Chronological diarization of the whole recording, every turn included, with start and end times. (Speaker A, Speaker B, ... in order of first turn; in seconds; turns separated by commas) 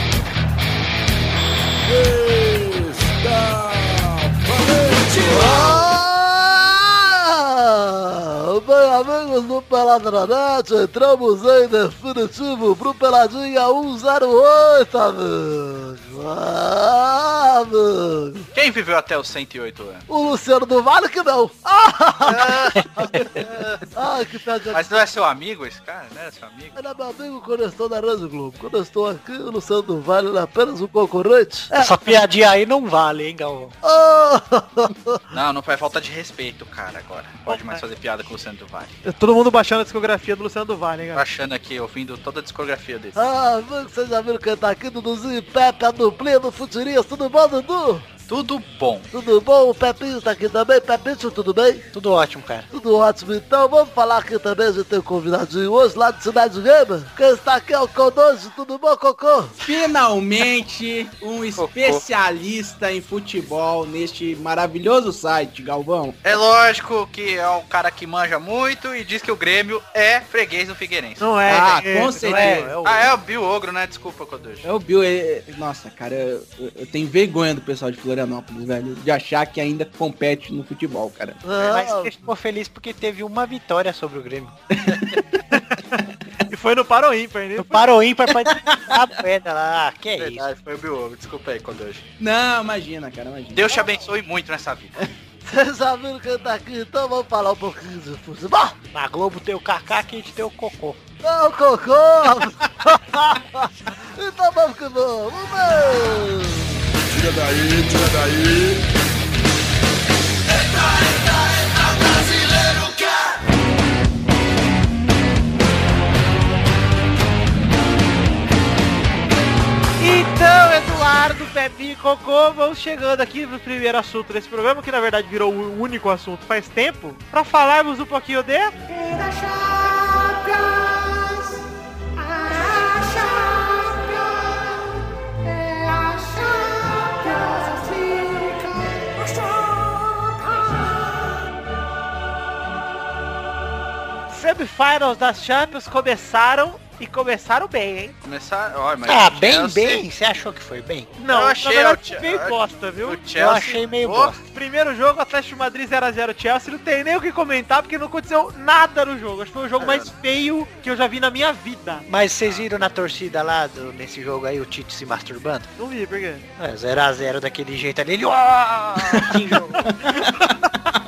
Speaker A: 1.8-5.9, Speaker B: 4.9-5.8, Speaker C: 5.3-18.5, Speaker D: 18.5-20.1, Speaker C: 20.1-25.0, Speaker D: 22.2-23.9, Speaker E: 22.8-23.2, Speaker D: 24.7-26.8, Speaker C: 26.8-32.1, Speaker E: 31.8-33.8, Speaker C: 33.8-35.2, Speaker D: 35.3-39.0, Speaker F: 37.5-37.8, Speaker F: 39.0-41.2, Speaker D: 41.1-43.2, Speaker C: 43.1-48.1, Speaker D: 48.3-49.1, Speaker C: 49.1-51.8, Speaker E: 51.9-52.7, Speaker C: 52.7-59.5, Speaker G: 59.6-66.2, Speaker D: 61.6-62.0, Speaker D: 66.2-71.3, Speaker F: 71.2-72.7, Speaker G: 71.5-72.7, Speaker E: 72.2-73.1, Speaker D: 72.8-74.7, Speaker G: 74.6-81.4, Speaker C: 81.4-82.2, Speaker E: 81.6-84.6, Speaker G: 84.7-85.4, Speaker F: 85.5-87.9, Speaker E: 87.6-90.5, Speaker G: 88.4-89.0, Speaker D: 90.2-92.1, Speaker G: 92.2-93.8, Speaker D: 93.5-95.0, Speaker C: 95.5-98.8, Speaker E: 98.9-101.0, Speaker C: 101.2-106.8, Speaker A: 107.1-108.9, Speaker B: 111.9-113.1, Speaker F: 120.0-128.7, Speaker B: 128.9-131.6, Speaker B: 132.2-134.9, Speaker B: 135.4-141.5, Speaker F: 144.3-148.2, Speaker D: 148.2-150.0, Speaker E: 149.1-151.2, Speaker F: 151.2-153.2, Speaker D: 151.3-154.4, Speaker E: 153.4-154.4, Speaker F: 154.5-162.1, Speaker D: 159.8-160.1, Speaker E: 162.1-165.7, Speaker F: 165.8-166.4, Speaker E: 166.6-169.9, Speaker G: 170.0-170.3